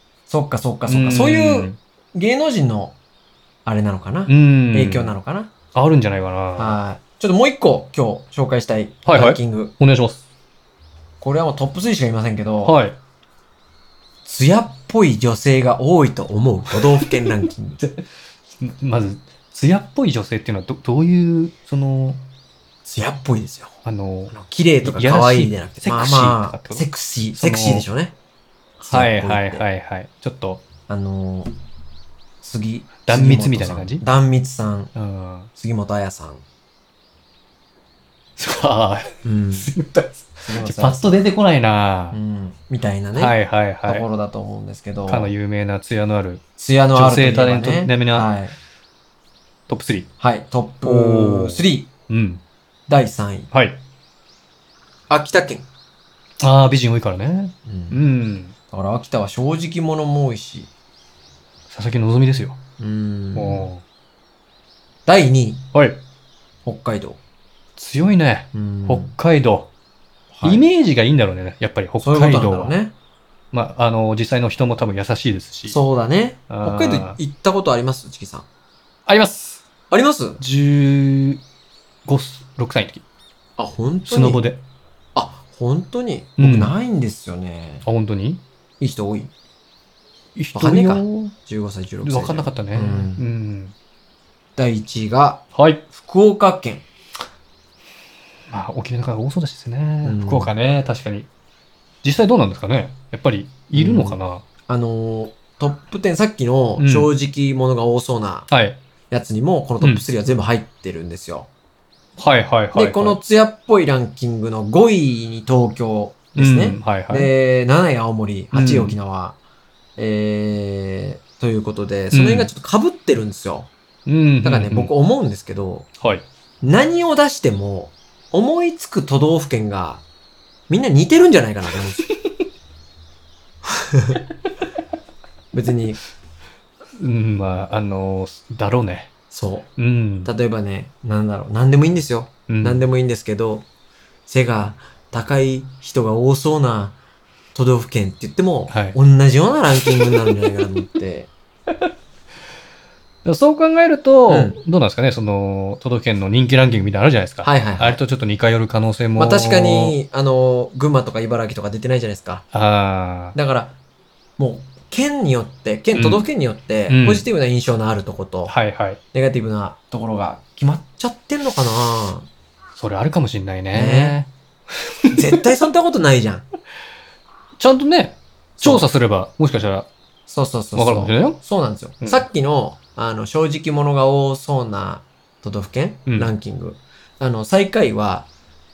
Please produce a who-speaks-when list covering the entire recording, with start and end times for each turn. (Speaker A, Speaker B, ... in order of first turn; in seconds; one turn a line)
Speaker A: 0.3-3.0
Speaker B: 0.8-1.8
Speaker A: 3.6-5.5
Speaker B: 4.3-5.2
Speaker B: 5.7-6.8
Speaker A: 6.6-9.7
Speaker B: 9.0-10.2
Speaker A: 11.2-12.8
Speaker B: 12.6-13.0
Speaker A: 14.2-17.8
Speaker B: 17.8-18.0
Speaker B: 18.6-22.2
Speaker A: 22.8-23.7
Speaker B: 23.8-27.9
Speaker A: 24.3-28.1
Speaker A: 28.8-29.6
Speaker B: 28.9-30.6
Speaker A: 30.9-31.5
Speaker A: 32.4-34.9
Speaker B: 33.0-34.0
Speaker B: 34.9-35.5
Speaker A: 35.6-36.4
Speaker B: 38.4-42.2
Speaker A: 39.2-39.7
Speaker A: 40.4-41.2
Speaker A: 42.1-45.3
Speaker B: 43.1-44.0
Speaker B: 45.1-46.4
Speaker A: 46.6-48.5
Speaker B: 46.9-48.3
Speaker B: 49.7-50.1
Speaker A: 50.2-51.9
Speaker B: 50.8-52.4
Speaker A: 52.9-53.5
Speaker B: 53.5-53.8
Speaker A: 55.1-55.6
Speaker B: 56.4-58.5
Speaker A: 57.6-58.0
Speaker A: 58.7-60.7
Speaker B: 61.7-62.6
Speaker A: 62.8-63.7
Speaker B: 63.3-63.8
Speaker A: 65.0-65.6
Speaker B: 65.7-66.0
Speaker A: 66.6-67.2
Speaker B: 67.8-69.7
Speaker A: 68.5-69.1
Speaker A: 70.3-70.7
Speaker B: 70.4-72.8
Speaker A: 72.0-72.9
Speaker B: 73.5-75.8
Speaker A: 75.7-78.5
Speaker B: 76.5-77.2
Speaker B: 79.1-79.6
Speaker A: 79.9-80.4
Speaker B: 80.4-81.4
Speaker B: 82.0-83.0
Speaker A: 83.6-84.5
Speaker B: 84.1-84.6
Speaker A: 85.1-87.8
Speaker B: 86.4-86.7
Speaker B: 87.8-88.4
Speaker A: 88.8-89.3
Speaker B: 90.3-91.3
Speaker A: 90.5-93.2
Speaker B: 92.0-93.7
Speaker A: 94.6-95.4
Speaker B: 95.5-95.8
Speaker A: 96.0-96.8
Speaker B: 98.5-101.3
Speaker A: 100.0-100.5
Speaker B: 102.0-104.5
Speaker A: 103.7-108.5
Speaker B: 106.8-107.1
Speaker B: 108.5-108.8
Speaker A: 109.1-111.5
Speaker B: 109.8-110.0
Speaker B: 112.2-113.2
Speaker A: 112.7-119.4
Speaker B: 116.3-117.3
Speaker B: 118.5-119.0
Speaker A: 120.0-123.7
Speaker B: 122.1-122.5
Speaker B: 124.0-124.9
Speaker A: 124.4-125.9
Speaker A: 126.6-130.0
Speaker A: 130.7-132.0
Speaker A: 133.7-134.2
Speaker A: 135.5-136.0
Speaker B: 136.9-139.1
Speaker A: 139.3-139.7
Speaker B: 139.8-140.3
Speaker A: 140.2-143.7
Speaker B: 142.5-142.8
Speaker A: 144.3-147.0
Speaker A: 147.5-151.3
Speaker B: 148.7-149.0
Speaker B: 149.8-150.1
Speaker B: 153.2-159.9
Speaker A: 154.3-154.6
Speaker A: 157.4-158.0
Speaker A: 159.2-162.4
Speaker B: 162.5-163.3
Speaker A: 163.3-163.8
Speaker A: 164.4-168.5
Speaker B: 165.9-166.2
Speaker B: 166.9-167.2
Speaker B: 168.5-169.0
Speaker A: 169.1-172.3
Speaker B: 172.7-174.3
Speaker A: 173.7-174.2
Speaker A: 175.1-176.4
Speaker B: 177.6-179.9
Speaker A: 178.6-178.9
Speaker A: 180.3-188.3
Speaker B: 180.7-181.4
Speaker B: 186.1-186.3